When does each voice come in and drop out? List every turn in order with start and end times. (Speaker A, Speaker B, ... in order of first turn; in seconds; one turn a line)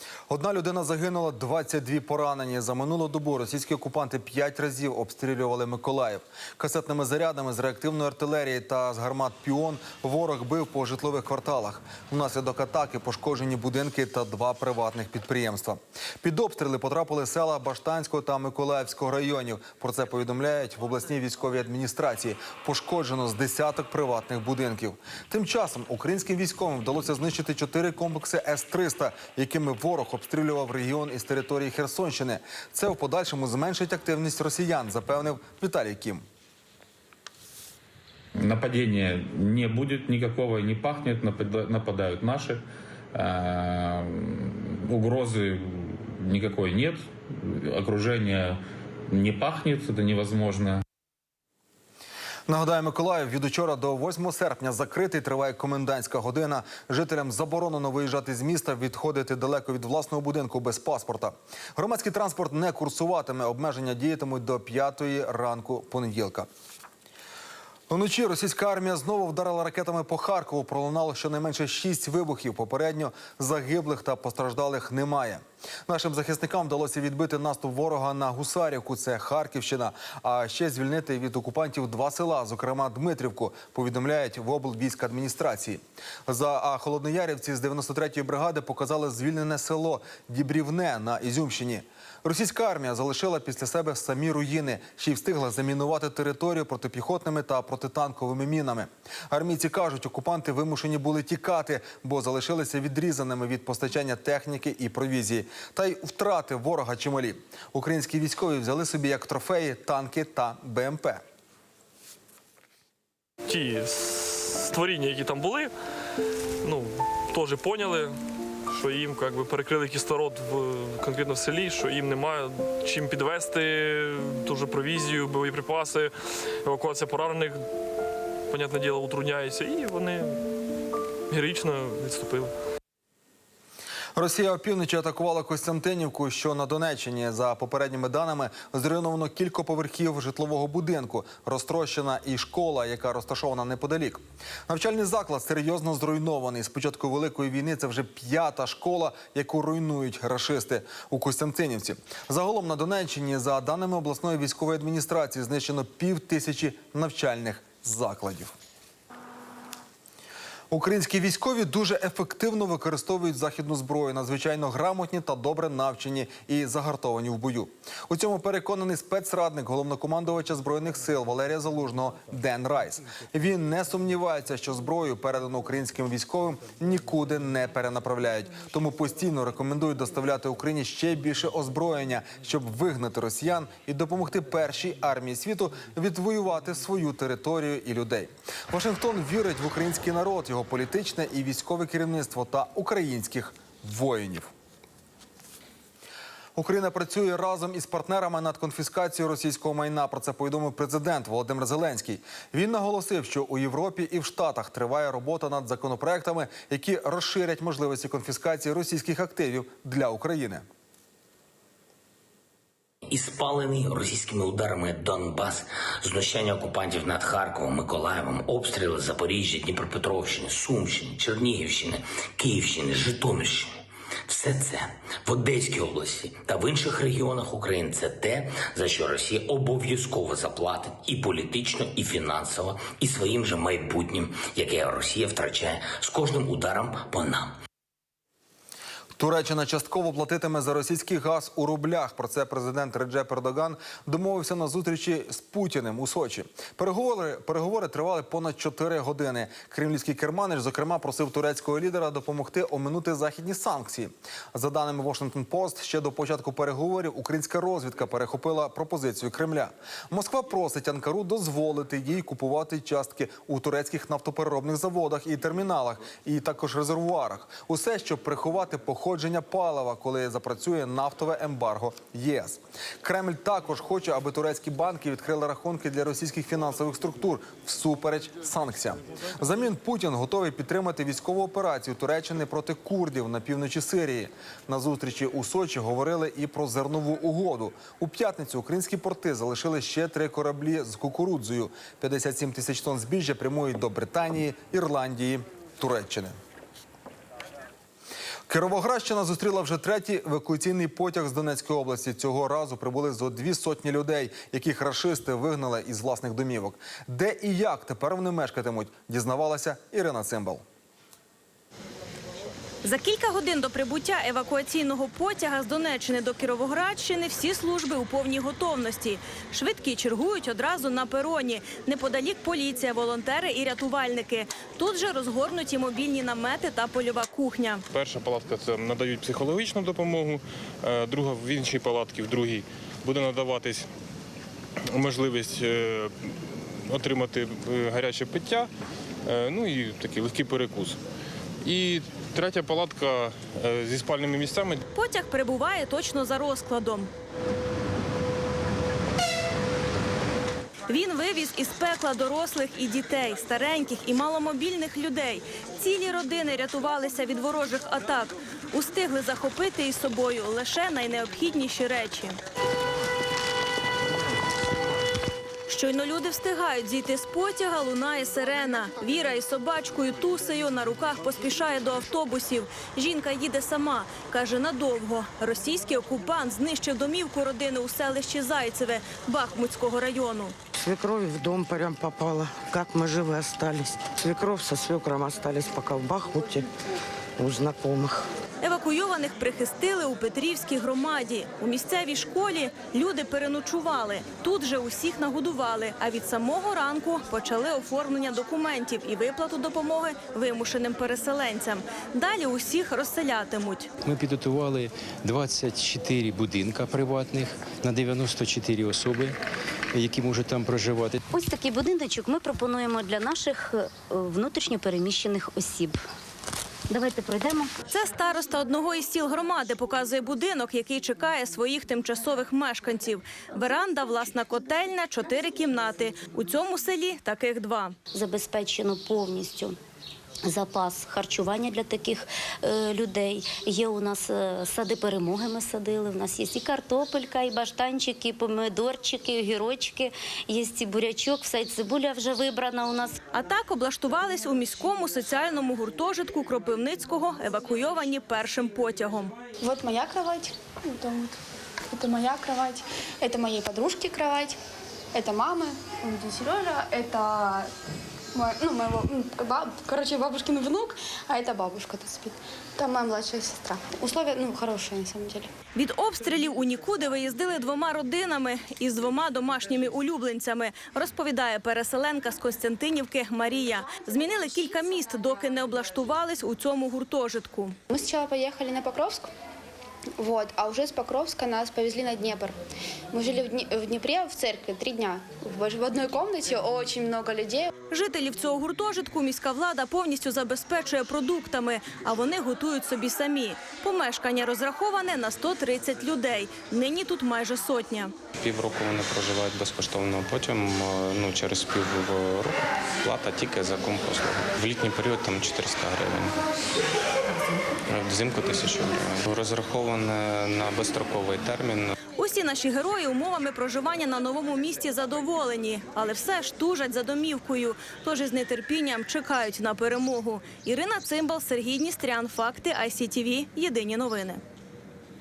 Speaker A: 0.3-36.2
Speaker B: 38.4-42.6
Speaker B: 43.1-50.8
Speaker A: 52.5-66.5
Speaker A: 67.9-111.2
Speaker C: 113.5-115.7
Speaker C: 116.6-118.2
Speaker C: 118.7-127.7
Speaker C: 128.5-130.4
Speaker C: 131.3-132.5
Speaker A: 134.2-158.5
Speaker A: 160.7-194.5
Speaker A: 196.6-210.6
Speaker D: 213.1-223.8
Speaker D: 224.3-237.5
Speaker A: 239.2-296.3
Speaker A: 298.5-310.6
Speaker E: 312.8-327.8
Speaker F: 327.9-333.9
Speaker F: 334.9-336.1
Speaker F: 336.9-338.7
Speaker F: 339.2-341.0
Speaker F: 341.6-344.8
Speaker E: 344.9-347.1
Speaker E: 350.9-362.4
Speaker E: 365.7-380.5
Speaker G: 380.7-386.7
Speaker G: 387.4-388.3
Speaker E: 388.6-403.9
Speaker H: 404.0-409.4
Speaker H: 409.9-411.2
Speaker I: 411.3-416.0
Speaker I: 416.9-417.7
Speaker E: 417.9-427.9
Speaker I: 428.1-429.8
Speaker I: 430.4-443.2
Speaker E: 443.3-449.3
Speaker J: 449.6-451.3
Speaker J: 451.9-454.6
Speaker J: 455.1-457.6
Speaker J: 458.4-465.5
Speaker E: 465.7-477.8
Speaker J: 477.9-479.3
Speaker J: 480.2-482.5
Speaker J: 483.1-487.7
Speaker E: 487.9-498.1
Speaker K: 498.4-506.4
Speaker K: 507.9-511.9
Speaker E: 512.2-524.4